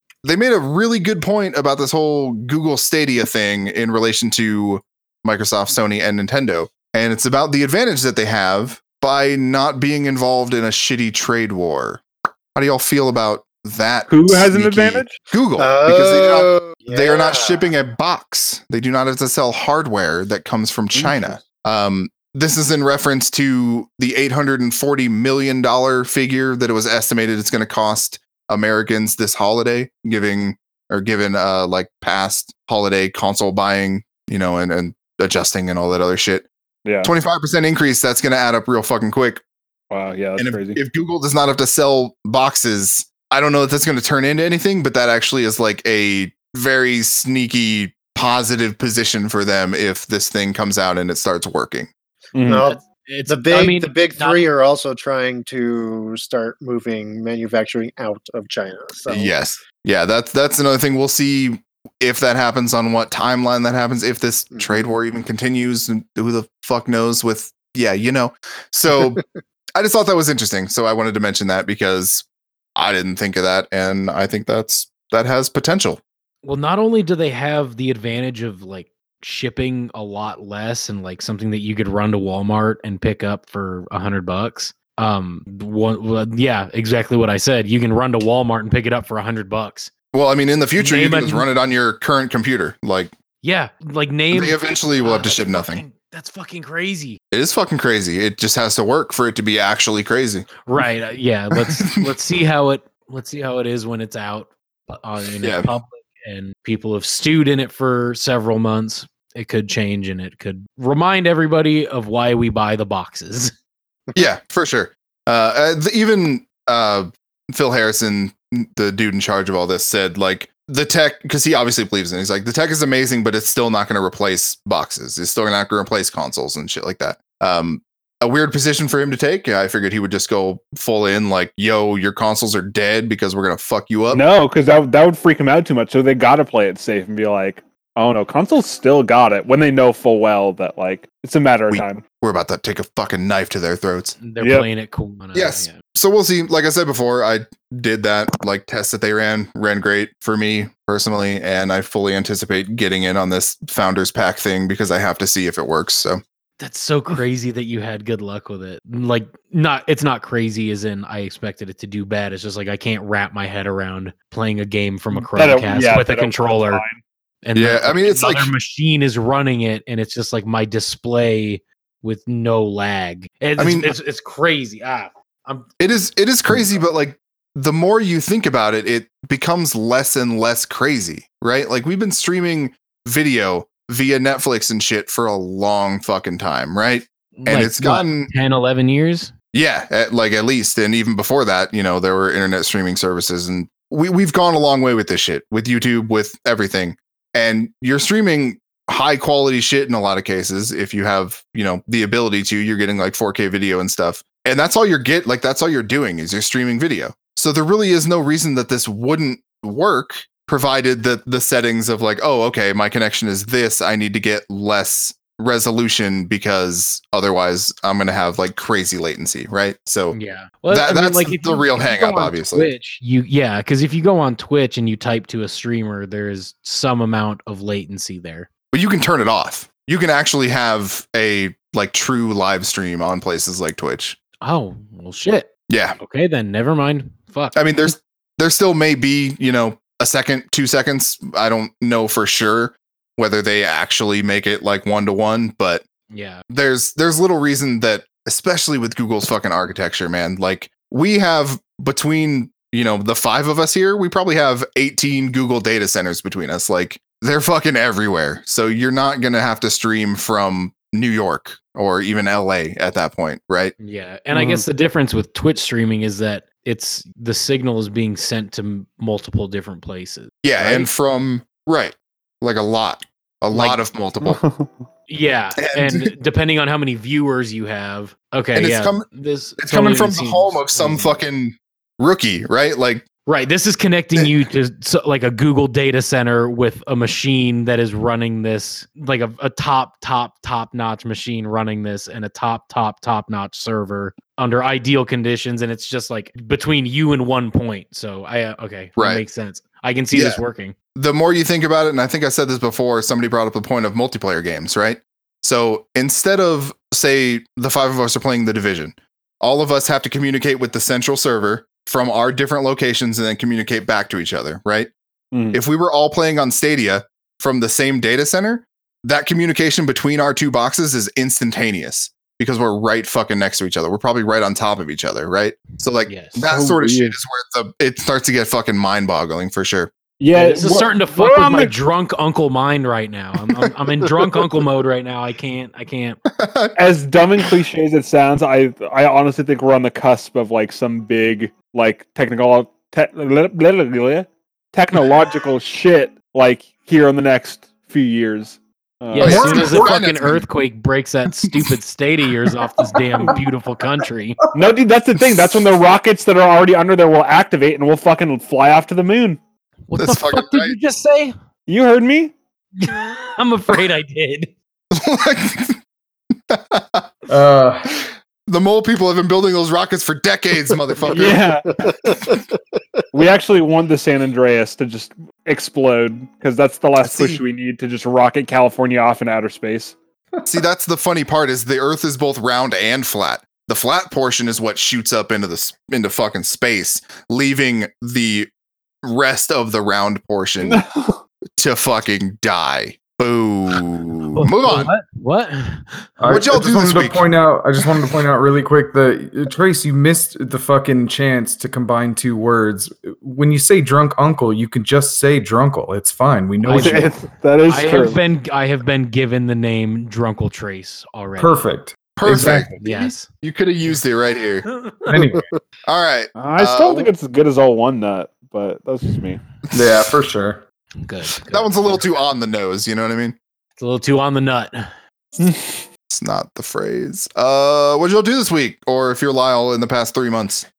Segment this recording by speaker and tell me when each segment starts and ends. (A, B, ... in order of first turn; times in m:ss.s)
0:00.2-0:12.0 A
0:12.6-0:36.5 A
0:14.1-0:15.1 B
0:15.6-0:17.7 C
0:20.9-0:21.3 B
0:36.8-0:37.1 B
0:37.0-0:39.4 A
0:39.9-0:40.8 B
0:40.4-0:51.9 A
0:52.3-0:52.7 B
0:52.5-0:59.3 C
0:52.5-0:54.5 D
0:59.1-1:09.2 A
1:04.5-1:04.8 C
1:09.8-1:16.0 A
1:16.4-1:29.9 D
1:30.1-1:33.1 A
1:30.8-1:31.5 D
1:33.4-1:37.2 D
1:34.3-1:35.8 A
1:37.3-1:40.5 A
1:40.7-1:53.5 D
1:41.6-1:42.1 A
1:45.4-1:45.7 A
1:54.2-2:14.2 A
2:14.1-2:22.0 B
2:21.7-2:24.2 A
2:24.2-2:25.8 D
2:24.4-2:24.7 B
2:25.3-2:36.2 A
2:36.6-2:46.8 D
2:45.1-2:47.0 B
2:47.4-2:55.7 D
2:47.6-2:48.5 A
2:53.6-2:53.9 A
2:55.8-3:08.3 A
3:07.4-3:09.3 D
3:09.5-3:40.2 A
3:40.1-3:48.5 D
3:40.7-3:42.7 A
3:48.7-3:54.2 A
3:54.4-3:57.6 D
3:55.7-3:56.0 A
3:57.5-4:05.8 A
4:06.1-4:06.4 D
4:06.5-4:23.7 A
4:23.8-4:30.9 D
4:24.3-4:24.6 B
4:30.4-4:34.4 A
4:33.5-4:33.8 D
4:34.2-4:34.7 B
4:35.1-4:41.2 D
4:35.6-4:36.1 A
4:38.6-4:39.1 A
4:39.6-4:43.0 A
4:43.3-5:00.7 D
4:59.0-4:59.2 A
5:00.1-5:00.4 A
5:01.0-5:14.9 A
5:15.3-5:15.6 B
5:15.5-5:29.9 A
5:26.1-5:26.4 D
5:26.5-5:27.2 B
5:30.2-5:31.7 B
5:30.3-5:36.2 D
5:36.3-5:36.8 A
5:36.8-5:49.9 B
5:49.1-5:54.4 D
5:49.2-5:50.4 A
5:54.5-5:59.4 B
5:59.9-6:01.3 D
6:00.0-6:00.8 A
6:01.7-6:02.3 B
6:02.8-6:04.5 D
6:04.9-6:05.8 A
6:06.5-6:07.1 A
6:07.3-6:07.9 E
6:08.0-6:12.4 A
6:11.1-6:11.8 B
6:11.8-6:12.4 C
6:13.1-6:20.0 B
6:17.0-6:17.4 A
6:20.5-6:28.5 A
6:29.0-6:30.8 A
6:30.6-6:31.2 B
6:31.6-6:34.9 A
6:34.3-6:36.1 D
6:36.2-6:47.1 E
6:36.3-6:37.3 A
6:46.6-6:47.1 D
6:46.7-6:48.2 B
6:47.7-6:51.6 D
6:51.4-6:52.8 E
6:52.2-6:54.7 A
6:52.8-6:53.3 D
6:54.7-6:55.2 D
6:55.1-6:55.5 E
6:55.9-6:57.1 A
6:56.4-6:59.4 B
6:59.7-7:00.0 A
6:59.7-7:00.6 E
7:01.0-7:02.0 D
7:01.5-7:03.4 A
7:03.8-7:04.8 D
7:05.4-7:05.8 B
7:06.1-7:10.7 A